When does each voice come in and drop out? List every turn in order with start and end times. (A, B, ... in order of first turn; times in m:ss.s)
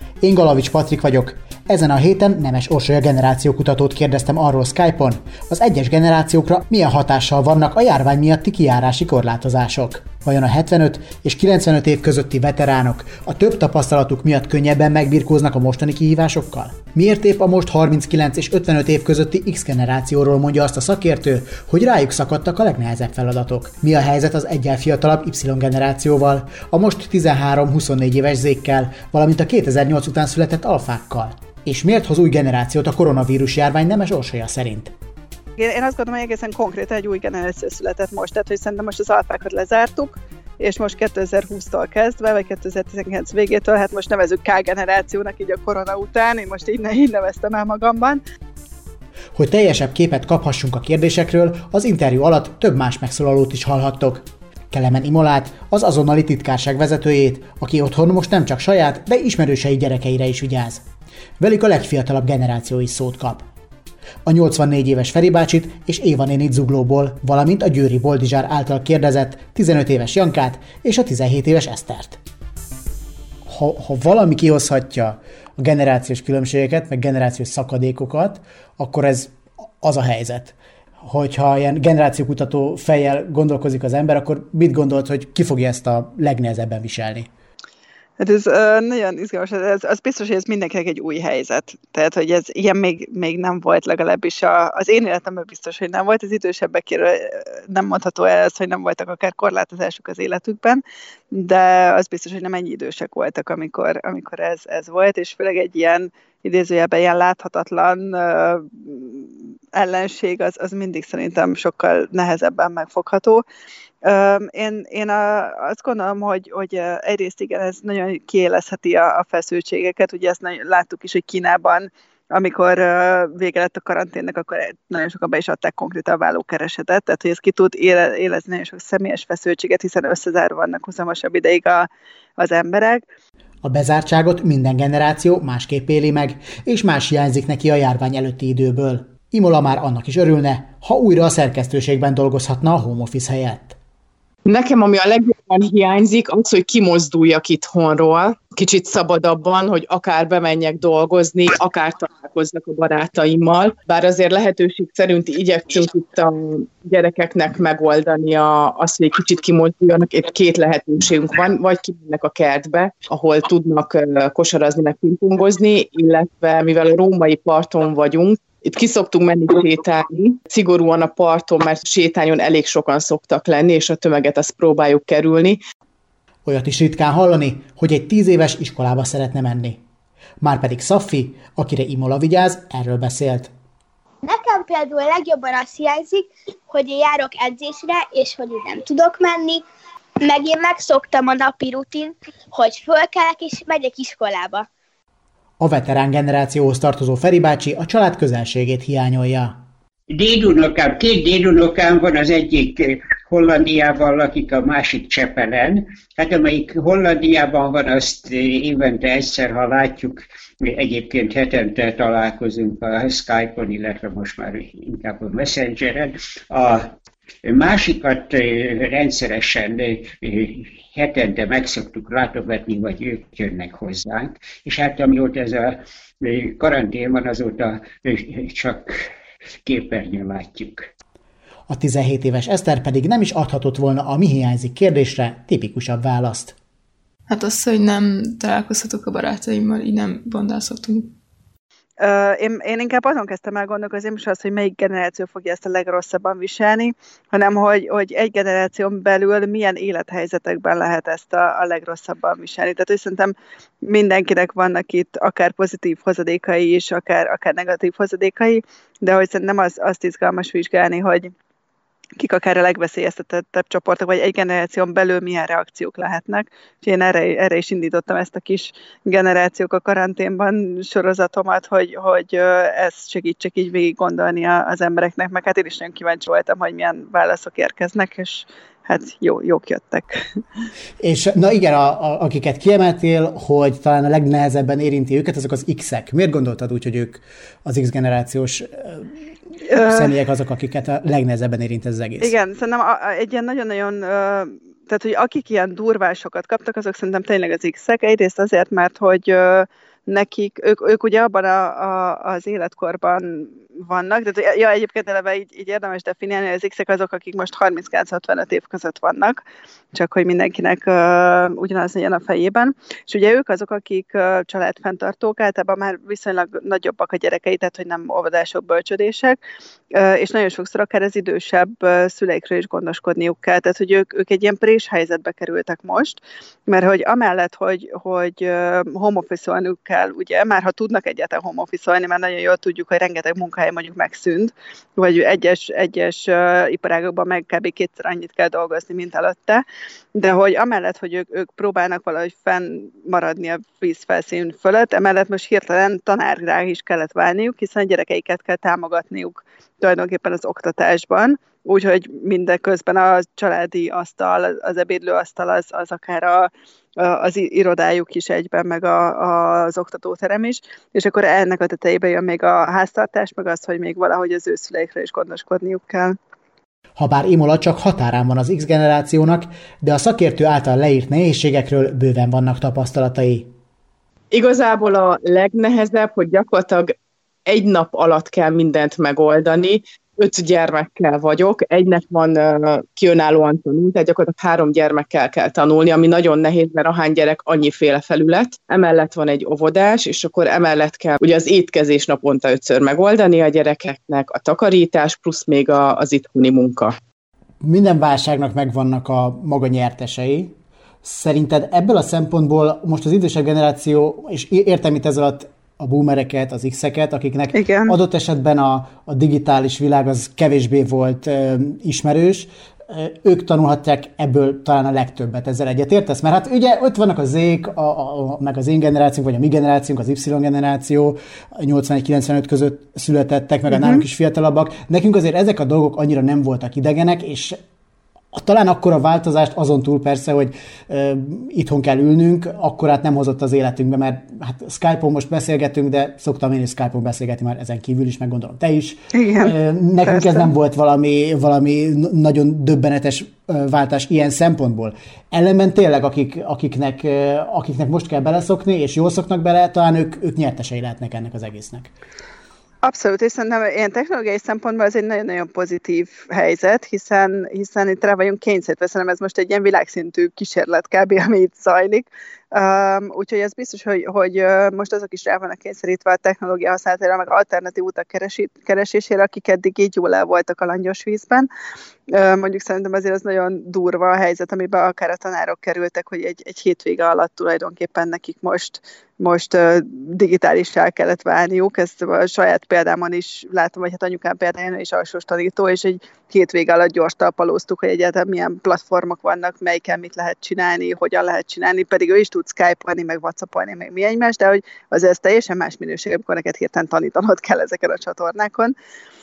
0:00.2-0:34.9 A
0:35.6-0:48.2 B
0:49.3-1:00.8 A
1:01.4-1:03.4 A
1:04.2-1:12.2 A
1:13.4-1:27.3 A
1:28.2-1:53.4 B
1:54.0-2:13.0 B
2:13.6-2:23.8 A
2:24.5-2:55.6 C
2:56.4-2:59.8 A
3:00.4-3:03.5 A
3:04.2-3:09.6 D
3:10.2-3:14.7 D
3:15.6-3:19.6 A
3:20.1-3:36.9 E
3:37.4-3:49.0 E
3:49.6-3:50.9 E
3:51.7-3:56.6 A
3:57.3-4:01.2 F
4:02.0-4:21.3 B
4:22.2-4:40.2 B
4:41.0-4:49.1 A
4:49.7-4:50.0 B
4:49.7-4:52.3 A
4:52.2-5:09.4 B
5:09.9-5:19.4 B
5:19.9-6:06.2 B
6:07.0-6:13.5 A
6:14.3-6:16.9 C
6:17.4-6:36.9 C
6:37.6-7:07.6 A
6:47.5-6:48.0 B
7:03.7-7:04.0 B
7:08.3-7:31.9 A
7:19.1-7:20.5 B
7:32.8-7:51.5 B
7:52.1-8:18.7 B